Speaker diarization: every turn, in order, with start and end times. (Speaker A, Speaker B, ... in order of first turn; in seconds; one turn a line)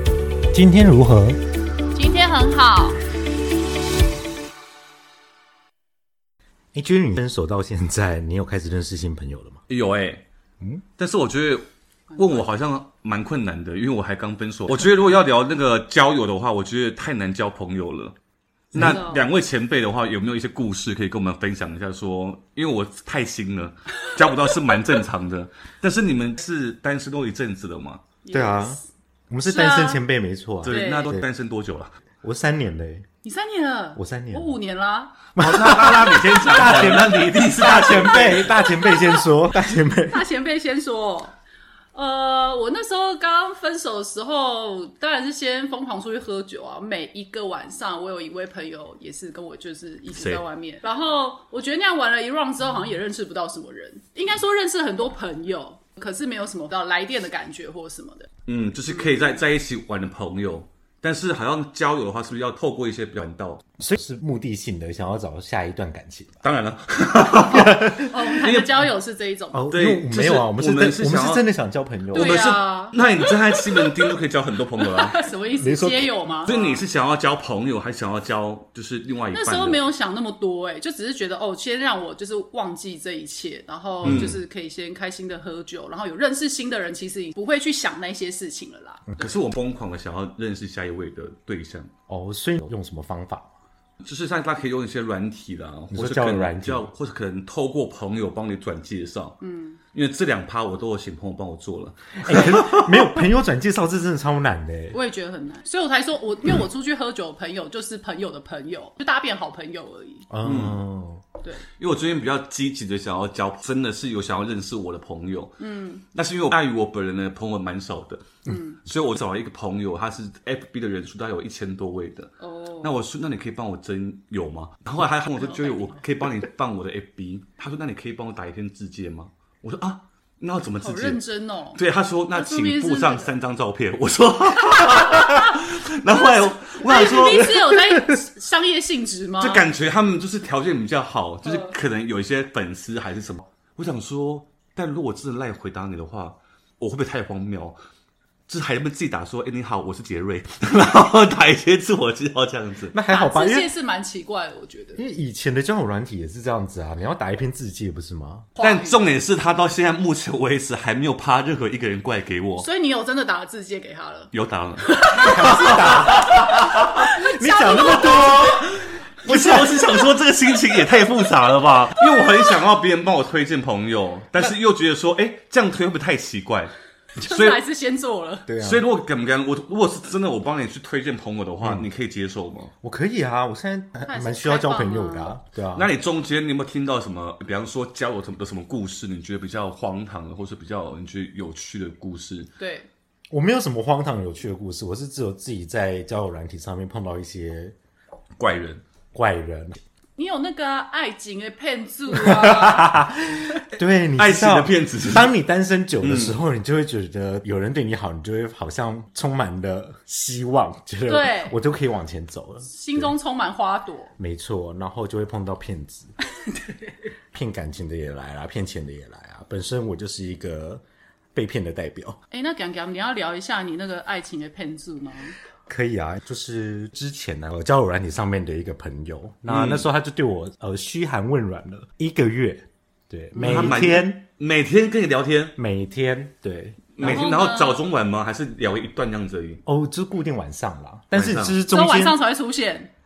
Speaker A: 0.5-1.4
Speaker B: 1.9-3.0
Speaker A: 6.7-9.6
Speaker C: 9.7-10.2
Speaker C: 11.0-11.7
Speaker B: 12.1-12.5
Speaker C: 12.2-18.2
Speaker A: 18.7-19.1
Speaker C: 18.7-28.0
Speaker B: 18.8-19.2
Speaker B: 28.2-28.8
Speaker A: 28.3-31.3
Speaker B: 29.5-30.0
Speaker C: 30.6-31.9
Speaker B: 30.7-31.1
Speaker A: 32.2-33.1
Speaker B: 33.2-35.2
Speaker A: 34.0-34.6
Speaker A: 35.4-40.2
Speaker C: 35.4-38.5
Speaker B: 37.6-39.2
Speaker B: 40.1-41.4
Speaker B: 42.0-58.3
Speaker C: 50.1-50.4
Speaker C: 58.5-63.6
Speaker B: 58.9-59.4
Speaker A: 63.8-66.4
Speaker C: 66.4-68.7
Speaker B: 67.3-69.7
Speaker A: 67.5-68.1
Speaker A: 69.5-72.5
Speaker C: 69.7-71.5
Speaker C: 72.1-75.3
Speaker B: 72.1-74.2
Speaker B: 74.8-76.8
Speaker A: 75.6-76.1
Speaker C: 76.4-79.8
Speaker B: 79.3-89.3
Speaker A: 84.0-84.3
Speaker C: 84.0-84.4
Speaker C: 89.2-91.9
Speaker A: 92.1-93.5
Speaker C: 94.0-99.4
Speaker A: 95.9-96.8
Speaker B: 99.4-99.8
Speaker C: 99.9-103.1
Speaker A: 102.2-105.0
Speaker B: 104.9-110.3
Speaker A: 110.3-111.2
Speaker C: 110.4-110.8
Speaker C: 111.8-115.6
Speaker B: 115.6-116.0
Speaker C: 116.1-131.2
Speaker B: 118.5-118.8
Speaker B: 122.4-122.9
Speaker B: 125.4-126.0
Speaker B: 130.8-131.8
Speaker C: 131.8-137.8
Speaker B: 132.3-133.3
Speaker B: 134.6-135.6
Speaker B: 136.1-139.6
Speaker C: 139.4-147.8
Speaker B: 141.5-141.7
Speaker C: 148.5-152.9
Speaker A: 152.9-153.7
Speaker B: 153.1-155.0
Speaker A: 155.0-158.5
Speaker B: 158.6-159.0
Speaker C: 158.6-162.7
Speaker B: 162.6-168.5
Speaker C: 164.3-167.0
Speaker A: 165.2-168.6
Speaker C: 167.7-177.6
Speaker A: 169.2-169.9
Speaker B: 172.0-172.3
Speaker B: 177.2-178.5
Speaker A: 178.5-178.9
Speaker C: 178.6-182.7
Speaker A: 182.8-185.9
Speaker B: 184.1-185.4
Speaker C: 185.8-192.5
Speaker B: 192.6-192.9
Speaker A: 193.3-197.8
Speaker C: 198.4-198.8
Speaker A: 199.1-199.8
Speaker B: 200.2-203.0
Speaker A: 202.1-213.1
Speaker C: 204.2-205.3
Speaker C: 206.0-206.4
Speaker B: 211.1-211.5
Speaker B: 212.7-214.1
Speaker A: 214.2-216.1
Speaker A: 217.3-220.8
Speaker A: 221.3-222.2
Speaker B: 222.3-225.4
Speaker A: 225.7-234.2
Speaker C: 229.5-229.9
Speaker B: 233.3-233.8
Speaker C: 233.4-235.6
Speaker A: 235.6-237.2
Speaker C: 237.0-239.6
Speaker B: 237.0-237.8
Speaker A: 239.7-242.2
Speaker C: 241.1-241.6
Speaker B: 241.7-242.9